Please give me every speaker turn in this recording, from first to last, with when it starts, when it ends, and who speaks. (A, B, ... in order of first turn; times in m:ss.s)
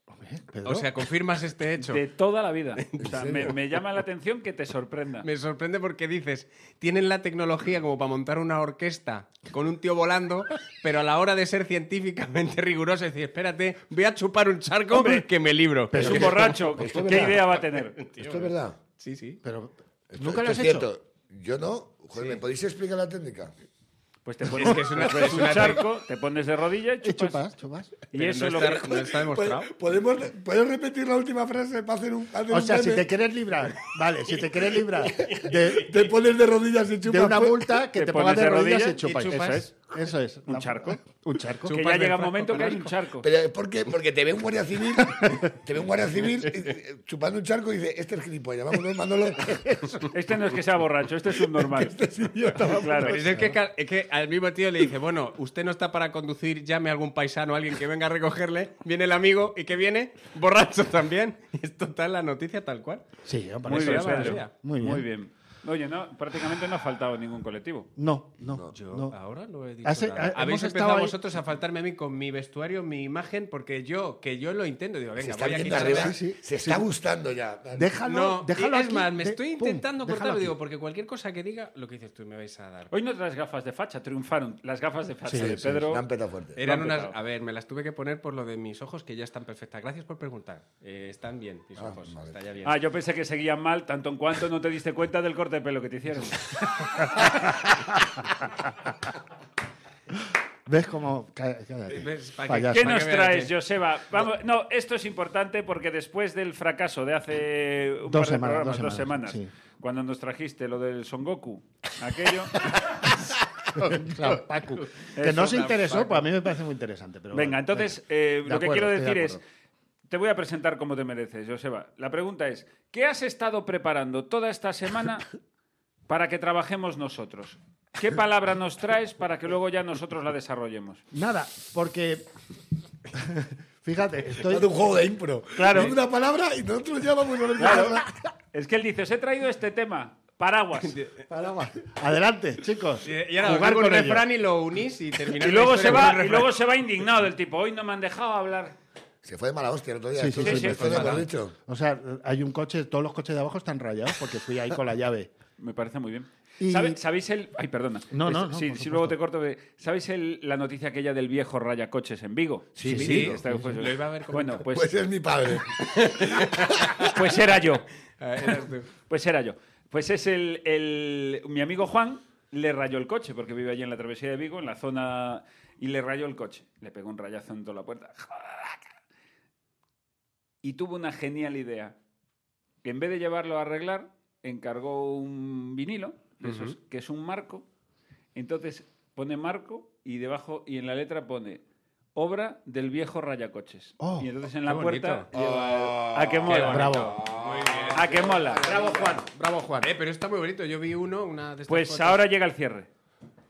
0:00.1-0:00.9 A
0:00.6-0:02.0 B
0:01.8-0:05.3 C
0:02.8-0:03.4 B
0:03.0-0:03.6 D
0:05.2-0:16.6 B
0:14.9-0:15.3 C
0:15.9-0:16.5 A
0:15.9-0:18.0 C
0:16.0-0:17.6 D
0:17.7-0:19.4 B
0:18.2-0:18.8 D
0:19.4-0:20.9 A
0:20.1-0:23.5 D
0:24.2-0:27.4 C
0:24.5-0:25.9 B
0:27.0-0:28.0 A
0:28.1-0:29.0 C
0:28.1-0:29.7 B
0:29.1-0:33.1 D
0:32.5-0:35.9 A
0:35.1-0:37.8 D
0:35.1-0:35.5 B
0:37.0-0:41.8 A
0:38.0-0:39.8 C
0:39.0-0:39.7 B
0:40.5-0:41.0 C
0:41.6-0:42.9 B
0:41.7-0:43.3 C
0:43.2-0:49.7 D
0:45.1-0:45.4 A
0:49.6-0:50.1 A
0:50.1-0:52.0 C
0:51.6-0:53.4 D
0:52.6-0:53.2 C
0:53.0-1:03.1 B
0:53.3-0:53.6 A
1:03.3-1:05.1 A
1:03.6-1:04.5 B
1:03.6-1:07.9 C
1:08.0-1:09.2 A
1:08.7-1:16.2 B
1:09.8-1:11.2 A
1:15.2-1:17.9 D
1:15.7-1:16.8 A
1:17.8-1:20.5 A
1:18.0-1:22.9 B
1:22.9-1:26.0 C
1:25.3-1:25.8 A
1:25.4-1:26.6 D
1:26.6-1:32.8 B
1:26.6-1:27.2 C
1:31.8-1:32.4 D
1:32.6-1:37.2 C
1:37.1-1:37.8 A
1:40.7-1:42.9 A
1:41.9-1:43.5 B
1:42.7-1:52.7 C
1:48.1-1:49.5 A
1:53.7-1:59.4 A
1:54.8-1:56.3 B
1:55.2-1:55.9 C
1:57.3-1:59.4 C
2:00.1-2:05.3 C
2:06.1-2:11.0 C
2:11.1-2:12.3 A
2:13.1-2:14.7 A
2:14.4-2:18.1 D
2:15.6-2:16.0 C
2:17.6-2:21.0 C
2:20.8-2:21.3 B
2:21.3-2:24.3 A
2:23.0-2:26.5 B
2:25.4-2:28.8 C
2:29.2-2:31.6 D
2:30.2-2:35.3 A
2:30.4-2:31.0 C
2:30.6-2:31.3 B
2:35.6-2:44.9 C
2:36.6-2:37.0 A
2:38.1-2:39.2 A
2:42.8-2:43.4 D
2:42.8-2:43.8 A
2:42.9-2:44.6 B
2:44.7-2:47.1 D
2:45.8-2:47.1 B
2:47.0-2:47.9 C
2:48.2-2:48.9 B
2:49.1-2:58.9 C
3:00.6-3:02.0 C
3:02.8-3:07.6 C
3:06.4-3:06.8 B
3:08.4-3:11.6 C
3:12.2-3:17.1 C
3:14.0-3:14.3 A
3:14.7-3:15.3 B
3:15.3-3:19.2 D
3:16.5-3:18.7 B
3:16.6-3:17.2 A
3:18.0-3:18.6 C
3:18.6-3:19.9 A
3:19.8-3:22.2 B
3:21.7-3:22.9 C